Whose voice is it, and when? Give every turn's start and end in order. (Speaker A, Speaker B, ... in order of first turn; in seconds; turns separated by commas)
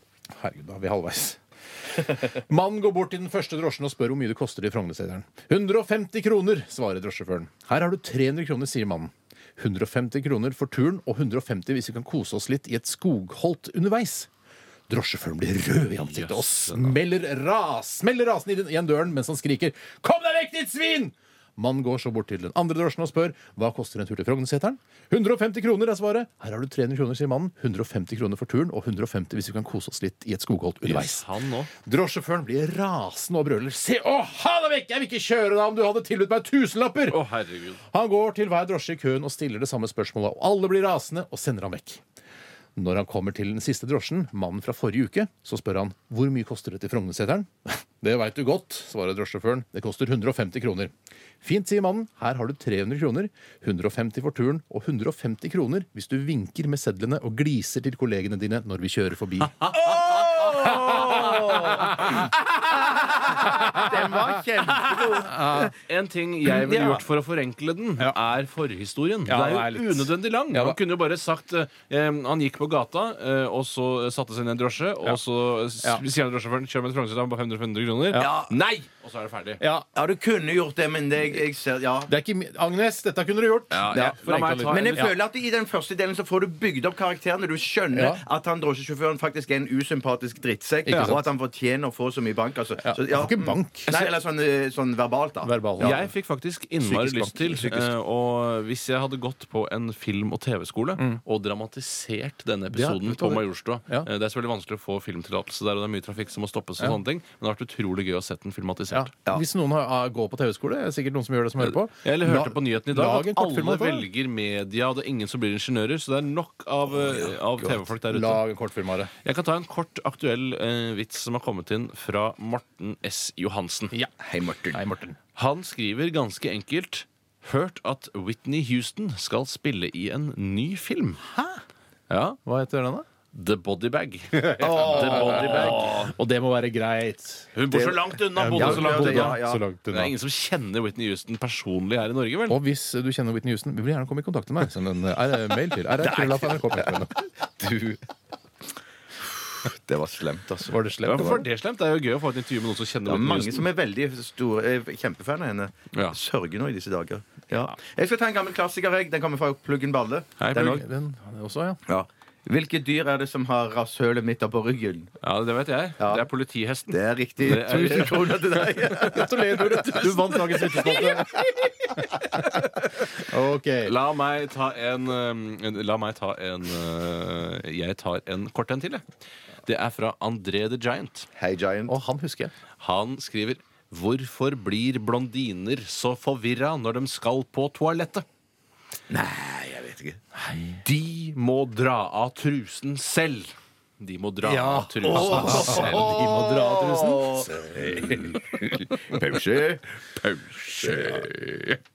Speaker A: 0.3-14.3, Speaker A: 14.9-31.2, Speaker B: 16.0-17.0, Speaker B: 30.8-31.7, Speaker A: 31.8-37.2, Speaker B: 37.1-37.8, Speaker A: 37.9-42.0, Speaker A: 42.8-59.8, Speaker C: 59.7-62.3, Speaker A: 60.6-62.3, Speaker C: 63.1-65.7, Speaker A: 63.4-64.4, Speaker A: 65.1-65.7, Speaker B: 65.9-79.6, Speaker A: 66.5-67.0, Speaker A: 69.2-70.8, Speaker C: 78.2-78.5, Speaker A: 79.6-79.9, Speaker C: 80.0-82.1, Speaker A: 82.1-85.1, Speaker B: 83.7-85.1, Speaker C: 83.9-96.1, Speaker A: 87.9-88.2, Speaker A: 90.9-91.2, Speaker B: 90.9-91.2, Speaker A: 92.8-93.9, Speaker A: 95.4-96.0, Speaker B: 95.8-109.1, Speaker A: 96.8-97.7, Speaker A: 102.7-104.1, Speaker A: 108.9-114.1, Speaker B: 111.6-118.4, Speaker A: 118.1-119.1, Speaker B: 119.2-123.9, Speaker A: 123.9-125.2, Speaker C: 124.2-124.8, Speaker B: 125.4-131.2, Speaker A: 131.3-131.6, Speaker B: 132.1-132.4, Speaker A: 132.5-133.0, Speaker B: 133.3-136.1, Speaker A: 134.3-137.5, Speaker C: 134.6-136.0, Speaker B: 137.5-142.6, Speaker C: 137.7-139.6, Speaker A: 138.3-140.1, Speaker A: 142.5-147.2, Speaker B: 146.1-146.5, Speaker C: 147.5-148.0, Speaker C: 149.5-151.4, Speaker A: 150.7-151.5, Speaker B: 151.0-153.6, Speaker C: 153.1-160.8, Speaker B: 160.4-160.8, Speaker A: 160.5-161.8, Speaker C: 161.9-165.1, Speaker B: 165.2-171.2, Speaker C: 166.0-166.2, Speaker C: 166.9-169.3, Speaker A: 169.0-171.4, Speaker B: 172.3-172.9, Speaker A: 173.2-173.9, Speaker B: 173.8-179.0, Speaker B: 179.7-181.3, Speaker C: 181.4-181.9, Speaker A: 181.9-182.5, Speaker B: 182.8-188.2, Speaker C: 189.1-190.2, Speaker A: 190.3-190.8, Speaker B: 190.8-196.0, Speaker A: 194.4-198.4, Speaker C: 195.0-199.8, Speaker B: 200.3-201.3, Speaker C: 200.5-201.2, Speaker A: 200.9-201.3